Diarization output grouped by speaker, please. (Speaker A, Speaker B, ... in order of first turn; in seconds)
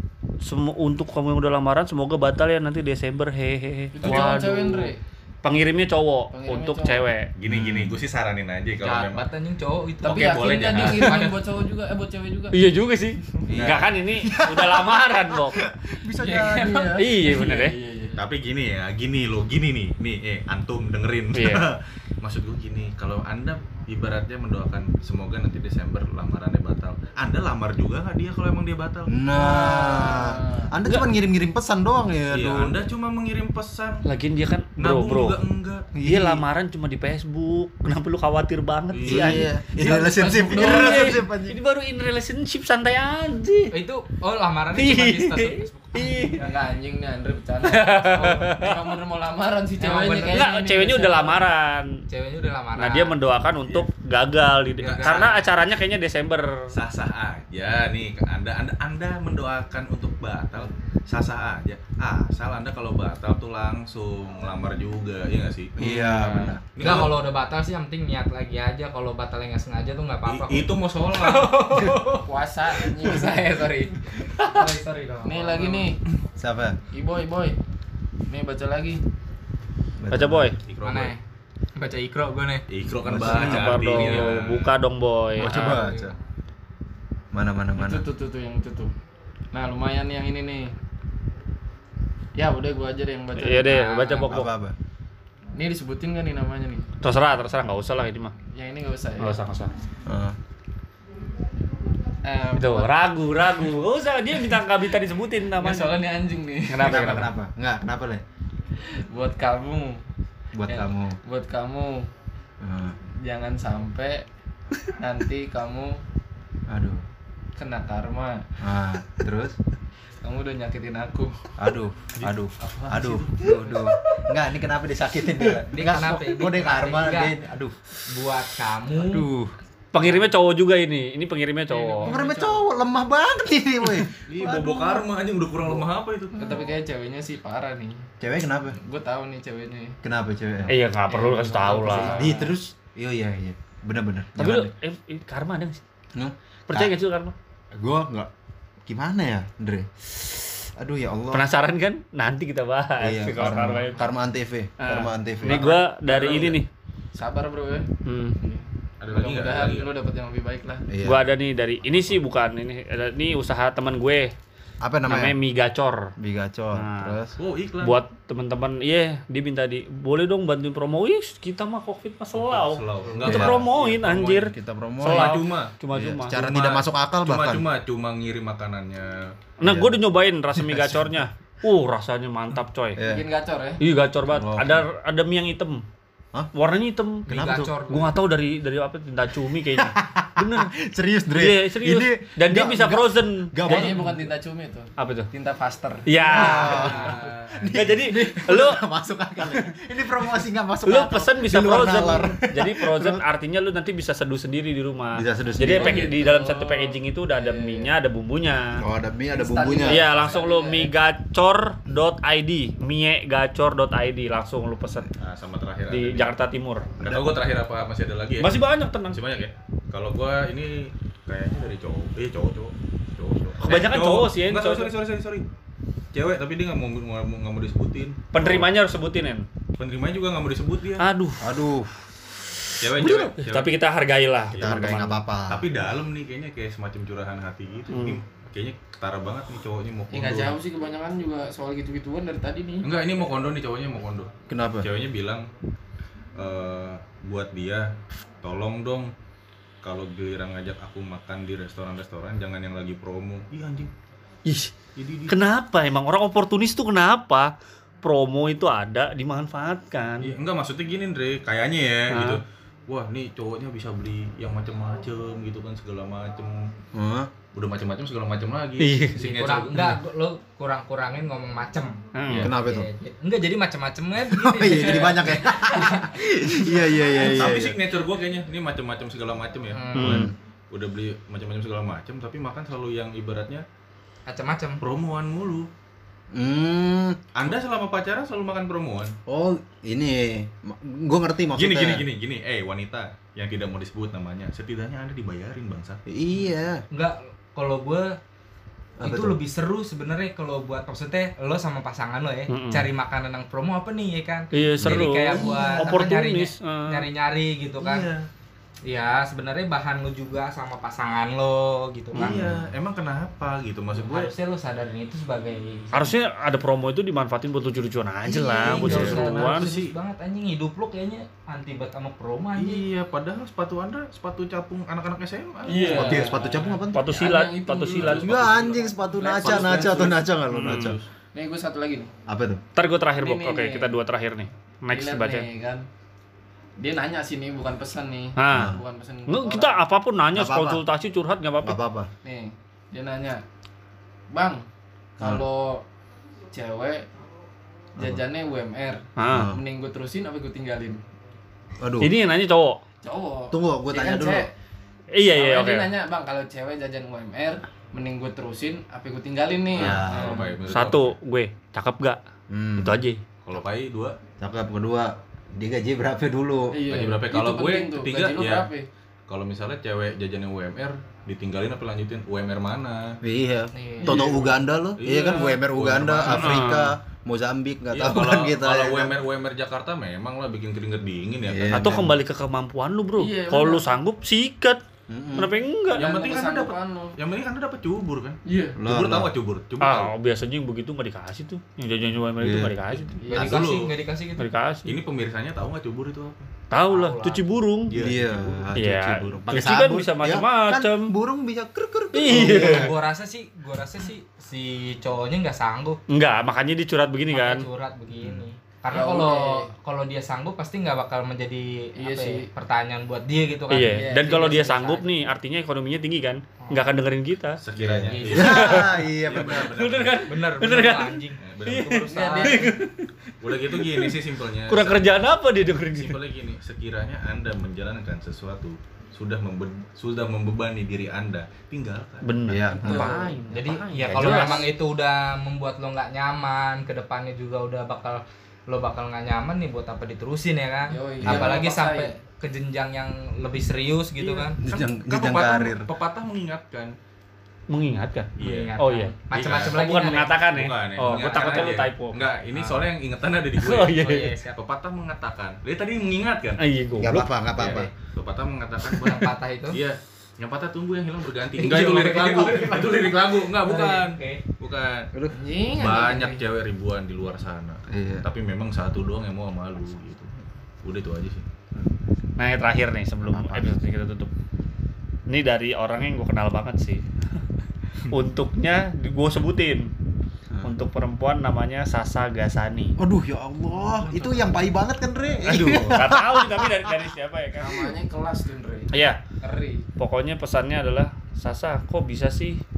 Speaker A: 0.4-7.3, 12.5-15.6, 16.9-17.8, 21.3-21.6, 34.0-35.4, 36.0-43.8, 44.7-46.4, 47.6-48.7, 50.3-52.0, 52.8-56.5, 80.1-80.6, 83.2-85.9, 93.3-94.5, 97.0-98.3, 99.2-99.7, 102.5-106.0, 106.7-107.3, 129.9-132.2, 140.7-142.3, 144.4-145.8, 146.7-147.3, 151.3-154.1, 154.8-156.7, 158.1-158.4, 161.0-164.3, 165.1-166.1, 166.7-167.2, 167.8-176.5, 179.6-183.0, 183.8-185.8, 186.5-190.7, 191.3-194.1, 195.0-195.3, 196.1-197.0, 197.7-198.8, 200.8-208.8, 209.9-215.1, 215.9-216.9, 218.4-219.2, 223.6-224.9, 228.3-229.5, 231.0-231.6, 232.9-235.2, 237.9-238.2, 254.4-254.7, 255.3-257.5, 258.0-260.3, 262.1-262.4, 268.8-269.4, 272.1-272.5, 279.9-280.3, 302.5-302.9, 304.5-307.1, 312.2-312.5, 315.9-319.7, 326.9-328.5, 330.5-331.0, 332.8-335.5, 338.4-341.8, 349.2-349.5, 352.0-352.8, 355.1-355.9, 360.7-362.2, 362.8-363.2, 376.3-376.9, 381.7-384.8, 385.4-386.1, 389.8-393.2, 394.4-394.9, 396.7-397.9, 398.8-401.1, 402.1-402.9, 406.1-407.7, 413.7-417.6, 418.3-422.9, 423.8-424.1, 424.7-426.2, 432.2-434.7, 447.7-452.3, 453.6-454.3, 456.6-457.3, 472.4-474.3, 475.3-477.0, 478.1-479.9, 480.6-483.0, 485.4-488.0, 488.9-489.2, 490.0-492.6
Speaker B: 3.9-5.0, 6.3-7.0, 10.0-12.6, 16.1-18.2, 29.4-30.7, 40.2-41.0, 46.4-51.4, 65.8-66.6, 72.2-76.0, 76.9-77.6, 78.3-79.0, 87.8-88.9, 89.5-90.7, 92.3-94.2, 95.5-96.9, 98.5-99.4, 102.2-102.9, 105.5-107.1, 108.8-110.0, 110.7-112.1, 113.2-114.2, 115.0-116.0, 117.6-118.4, 120.2-121.3, 130.0-130.3, 131.8-132.6, 136.4-138.0, 138.8-140.0, 141.1-142.6, 156.1-156.6, 157.1-160.9, 183.0-183.8, 193.6-196.9, 205.6-207.9, 209.3-210.9, 240.1-242.9, 318.6-319.2, 325.6-326.4, 327.1-328.2, 329.1-330.1, 331.3-332.1, 333.2-333.9, 334.9-335.9, 336.8-339.8, 342.2-343.4, 344.3-344.6, 345.2-345.8, 346.5-347.1, 348.0-351.0, 353.0-354.5, 355.3-360.6, 366.7-368.9, 374.0-374.7, 383.2-383.9, 385.9-387.2, 388.5-388.8, 393.2-393.6, 408.9-409.7, 412.0-412.5, 413.9-415.0, 422.1-422.8, 432.7-433.6, 434.2-434.6, 440.9-442.2, 462.6-463.1, 465.3-466.4, 487.6-488.9, 489.4-489.8
Speaker C: 7.4-9.3, 10.0-11.1, 13.5-13.9, 18.2-29.1, 32.3-34.0, 34.8-35.9, 38.9-39.5, 54.8-55.4, 56.7-65.8, 66.8-67.2, 70.2-71.7, 80.7-81.1, 82.7-84.7, 122.2-123.9, 134.3-136.7, 159.0-159.9, 161.8-162.2, 167.4-168.0, 172.3-174.5, 175.1-175.8, 176.3-179.2, 196.6-197.7, 215.2-216.3, 217.0-225.5, 226.1-228.7, 229.8-231.1, 232.8-233.8, 234.5-234.8, 235.5-240.6, 242.8-244.3, 244.8-245.5, 246.3-247.9, 248.4-249.1, 249.8-253.9, 255.0-255.3, 260.2-266.7, 267.5-270.0, 277.2-283.6, 284.8-285.7, 287.4-289.1, 291.5-296.5, 307.8-308.3, 312.2-314.3, 318.6-319.9, 322.6-326.4, 327.9-330.2, 359.7-361.1, 363.4-364.2, 366.9-368.7, 369.3-373.2, 375.0-376.7, 377.9-381.9, 385.9-390.1, 393.4-393.9, 394.9-396.5, 397.9-398.7, 417.6-420.2, 421.4-422.2, 423.4-425.1, 425.9-432.3, 444.6-446.9, 448.4-448.8, 449.3-456.6, 457.6-465.1, 465.7-470.3, 470.8-471.5, 484.0-484.4
Speaker D: 7.5-8.0, 13.5-17.1, 29.1-32.8, 35.9-36.4, 39.1-41.6, 65.8-66.9, 76.4-76.8, 80.0-80.5, 83.0-84.3, 85.4-86.2, 87.3-88.0, 94.3-94.8, 100.1-100.4, 106.8-108.2, 110.5-111.2, 112.6-113.0, 116.7-117.0, 118.6-119.6, 121.6-127.8, 128.9-129.5, 132.0-135.1, 138.2-138.8, 140.0-140.7, 141.8-144.7, 146.2-146.9, 147.7-148.3, 148.9-149.9, 150.6-151.4, 153.0-156.3, 160.9-161.2, 164.8-165.4, 166.2-167.4, 173.2-173.7, 174.3-175.4, 175.9-177.7, 179.6-180.1, 180.6-181.2, 183.0-183.2, 184.3-184.9, 187.3-187.7, 189.7-194.1, 196.3-203.2, 205.1-206.1, 208.8-210.1, 217.0-217.4, 231.4-231.9, 234.5-235.7, 244.5-244.9, 266.9-267.3, 272.3-272.9, 274.2-277.8, 280.0-280.3, 286.3-287.2, 289.3-292.1, 296.1-296.8, 299.0-299.4, 304.8-305.9, 312.2-312.6, 325.8-327.1, 328.1-331.0, 332.3-332.6, 338.5-338.8, 340.3-340.8, 341.6-342.1, 348.0-348.2, 349.3-349.6, 351.8-352.1, 353.5-354.5, 359.8-360.4, 362.5-363.0, 364.4-366.8, 373.2-379.2, 381.5-382.2, 385.1-385.5, 388.8-389.3, 392.4-393.1, 397.9-402.9, 417.8-419.7, 432.5-433.2, 441.2-441.6, 444.6-445.9, 457.0-457.9, 467.9-468.2, 473.2-473.8, 483.0-486.7
Speaker E: 8.8-11.4, 43.7-46.5, 49.8-50.4, 52.1-53.1, 55.0-55.3, 66.8-75.9, 80.8-81.2, 81.8-82.7, 85.5-86.1, 93.9-94.3, 125.7-127.3, 128.1-129.3, 187.3-188.1, 196.6-197.2, 269.2-271.9, 272.6-276.1, 276.7-276.9, 279.7-280.2, 284.3-284.8, 296.9-298.1, 299.0-308.1, 308.9-312.3, 313.9-316.1, 318.3-322.9, 373.7-374.2, 393.3-394.5, 396.8-397.4, 402.3-406.0, 407.3-415.1, 418.1-418.7, 420.2-422.7, 433.5-444.6, 448.4-450.4, 451.0-451.8, 452.5-452.9, 453.9-454.6, 458.9-459.8, 461.6-462.7, 463.6-464.4